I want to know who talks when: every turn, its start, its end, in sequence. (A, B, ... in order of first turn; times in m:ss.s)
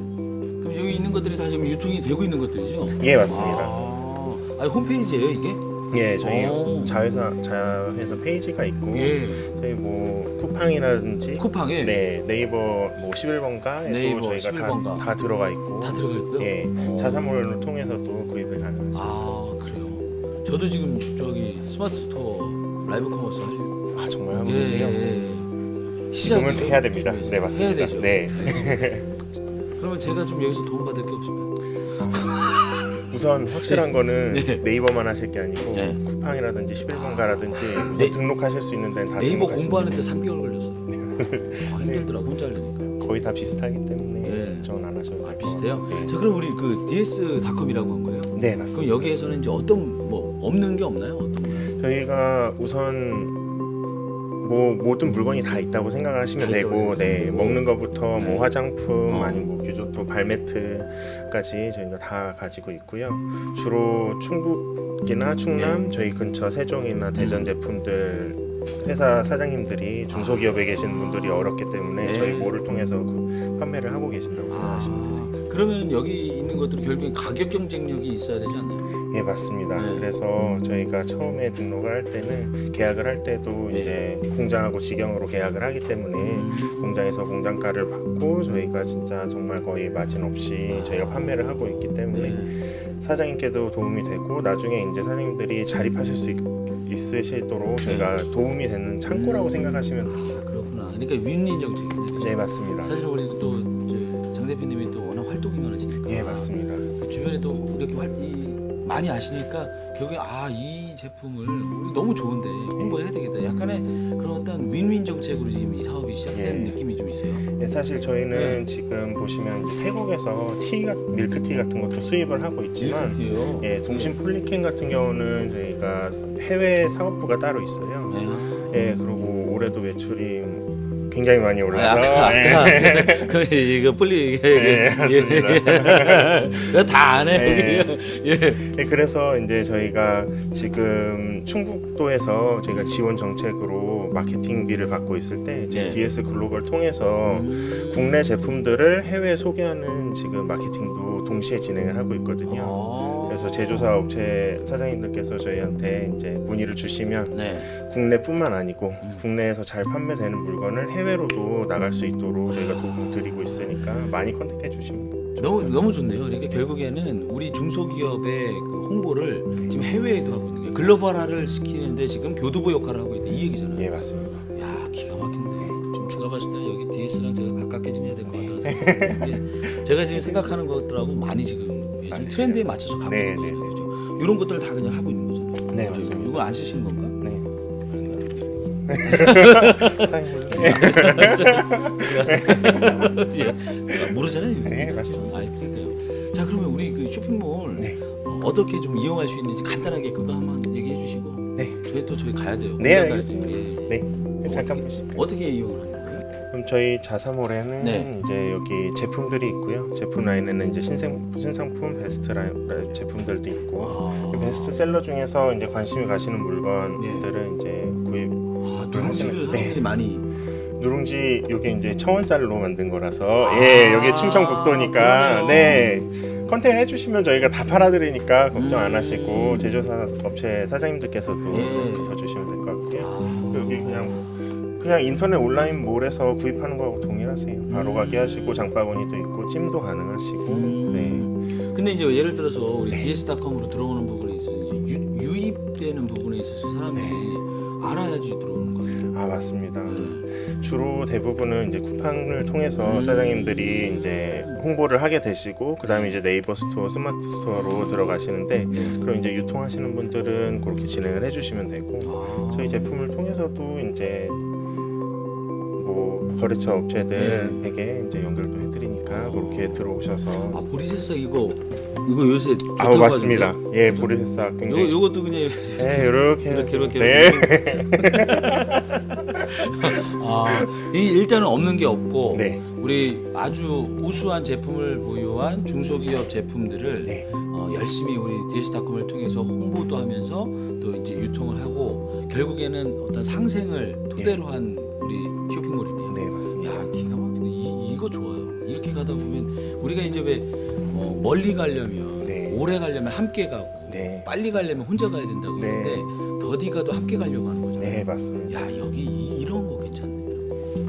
0:00.6-0:07.0 A
0:02.9-0:03.9 B
0:05.9-0:19.5 B
0:08.9-0:09.5 A
0:11.4-0:12.0 A
0:13.8-0:15.1 A
0:15.8-0:17.4 A
0:18.9-0:23.8 A
0:23.9-0:25.1 B
0:24.4-0:25.5 A
0:26.1-0:28.9 A
0:26.2-0:29.1 B
0:29.7-0:31.6 A
0:31.9-0:32.4 B
0:32.1-0:34.6 A
0:33.1-0:40.1 B
0:35.7-0:36.0 A
0:36.9-0:38.2 A
0:39.2-0:40.9 A
0:40.9-0:42.1 B
0:41.6-0:43.0 A
0:42.9-0:46.2 B
0:44.2-0:51.7 A
0:48.3-0:49.2 B
0:51.6-0:53.4 B
0:54.4-1:15.3 B
0:56.4-0:58.5 A
0:59.1-0:59.5 A
1:05.5-1:05.8 A
1:07.1-1:07.5 A
1:10.1-1:12.6 A
1:14.5-1:18.9 A
1:19.0-1:40.4 B
1:19.8-1:20.1 A
1:23.7-1:24.0 A
1:26.2-1:27.0 A
1:30.7-1:31.5 A
1:32.1-1:32.6 A
1:37.8-1:38.1 A
1:39.1-1:57.4 A
1:42.2-1:43.0 B
1:46.0-1:46.9 B
1:56.3-1:56.8 B
1:57.4-2:13.4 B
1:58.3-1:58.6 A
2:02.8-2:04.2 A
2:08.1-2:09.0 A
2:11.7-2:18.6 A
2:14.5-2:46.0 B
2:22.7-2:23.0 A
2:25.7-2:26.0 A
2:27.2-2:28.5 A
2:32.5-2:33.9 A
2:37.3-2:37.7 A
2:45.4-2:53.9 A
2:50.8-2:51.1 B
2:53.7-2:54.5 B
2:54.5-3:07.2 A
2:58.3-3:00.6 B
3:02.1-3:03.8 B
3:05.7-3:06.5 B
3:07.2-3:07.5 B
3:07.9-3:26.3 A
3:08.9-3:15.4 B
3:21.6-3:21.8 B
3:22.8-3:25.3 B
3:26.5-3:39.9 B
3:27.8-3:28.1 A
3:33.8-3:34.8 A
3:37.0-3:37.3 A
3:38.6-3:40.3 A
3:40.7-4:01.3 B
3:43.4-3:45.9 A
3:48.5-3:49.8 A
3:51.5-3:52.2 A
3:53.0-3:54.2 A
3:57.7-3:58.7 A
4:00.5-4:09.1 A
4:02.9-4:03.2 B
4:06.9-4:07.4 B
4:08.9-4:24.4 B
4:09.8-4:10.3 A
4:12.8-4:14.6 A
4:15.8-4:16.2 A
4:17.5-4:19.1 A
4:22.0-4:22.9 A
4:25.8-4:30.6 B
4:27.1-4:27.6 A
4:29.1-4:29.9 A
4:30.4-4:34.1 A
4:32.8-4:35.1 B
4:34.6-4:38.8 A
4:35.6-4:39.4 B
4:39.3-5:10.4 A
4:40.5-4:40.8 B
4:42.3-4:42.6 B
4:47.0-4:47.3 B
4:56.1-4:57.0 B
5:02.2-5:02.7 B
5:03.9-5:04.9 B
5:05.5-5:06.1 B
5:07.8-5:08.7 B